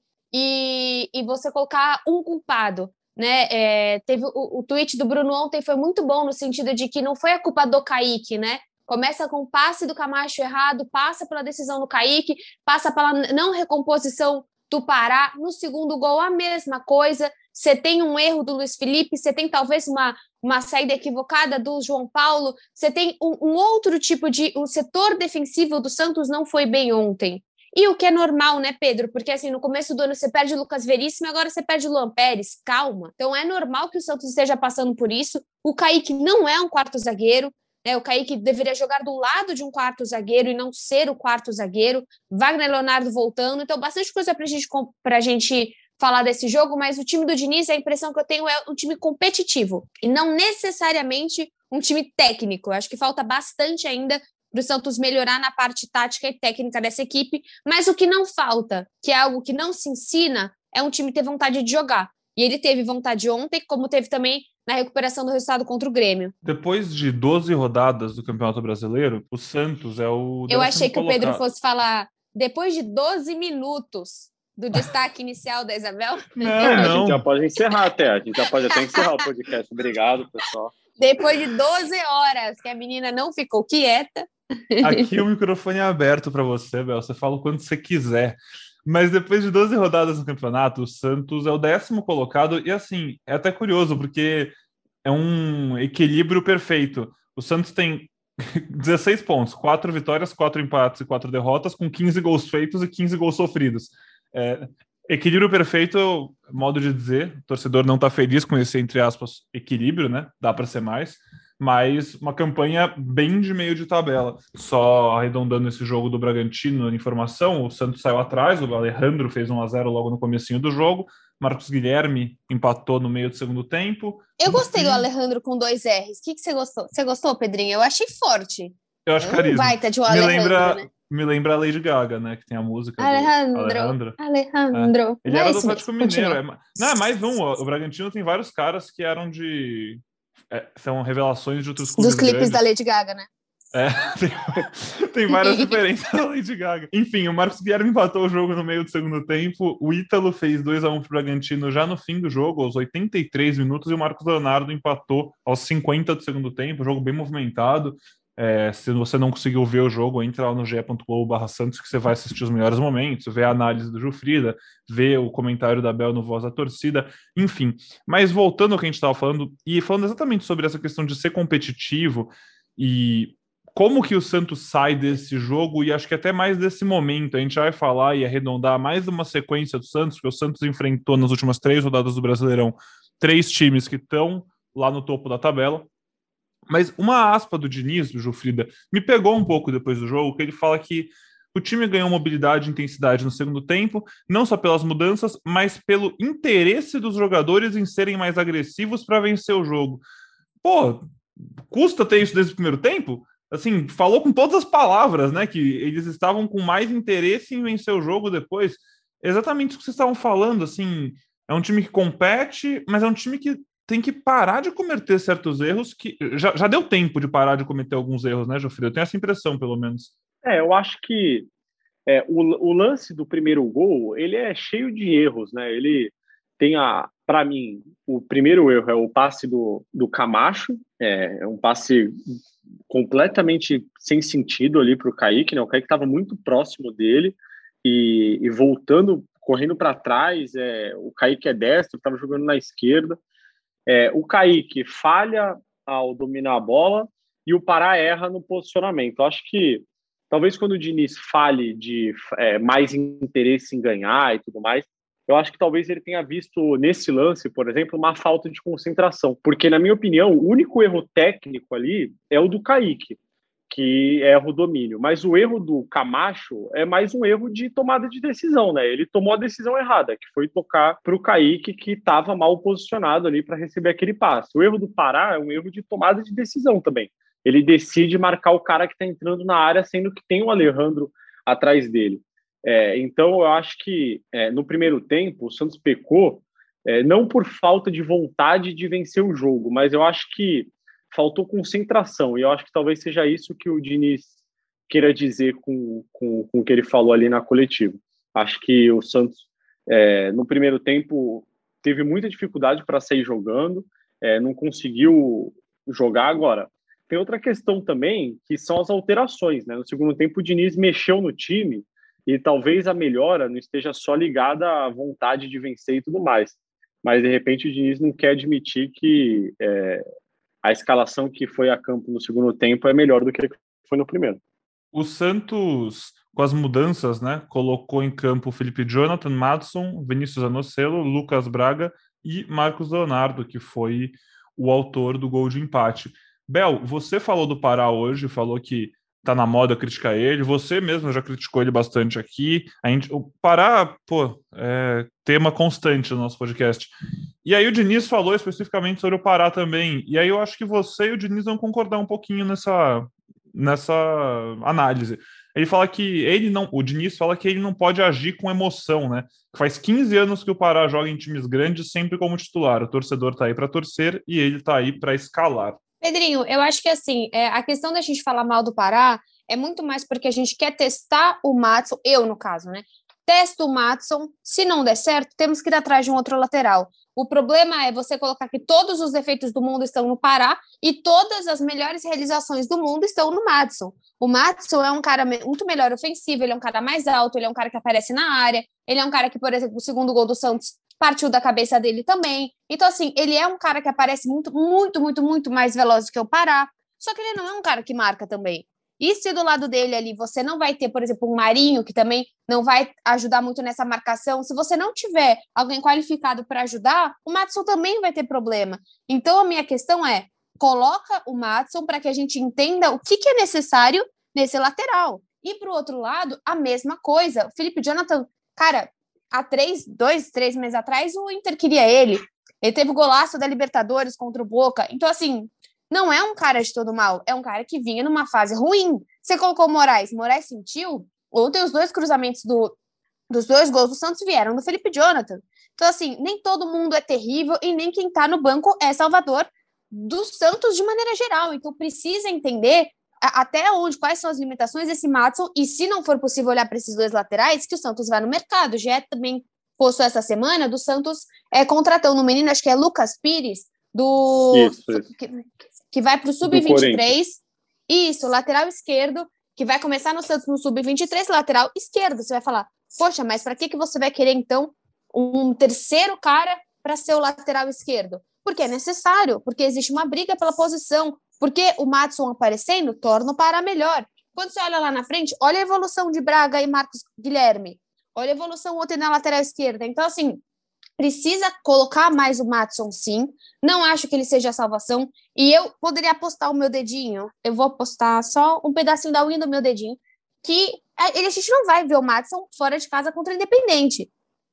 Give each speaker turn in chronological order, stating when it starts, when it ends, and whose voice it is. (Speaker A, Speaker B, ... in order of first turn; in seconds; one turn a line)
Speaker A: 0.3-66.3
Speaker B: 66.4-71.4
Speaker A: 70.5-76.9
Speaker B: 76.4-77.2
Speaker C: 76.6-80.7
Speaker A: 78.8-79.0
Speaker A: 81.0-85.1
Speaker B: 84.8-94.5
Speaker B: 95.0-125.0
Speaker A: 124.4-130.9
Speaker B: 129.1-134.2
Speaker A: 133.0-136.4
Speaker B: 134.7-142.7
Speaker A: 142.0-143.3
Speaker B: 143.7-185.9
Speaker A: 145.3-145.7
Speaker B: 186.7-200.0
Speaker B: 200.6-201.0
Speaker B: 201.6-220.1
Speaker C: 220.4-221.5
Speaker C: 222.1-232.1
Speaker C: 232.9-243.2
Speaker C: 243.9-263.2
Speaker C: 263.7-294.3
Speaker C: 294.9-320.0
Speaker C: 320.6-324.4
Speaker B: 324.9-346.9
Speaker B: 347.4-365.8
Speaker A: 366.0-432.7
Speaker A: 433.3-480.4
Speaker C: 454.5-455.1
Speaker C: 456.4-457.1
Speaker A: 481.0-494.1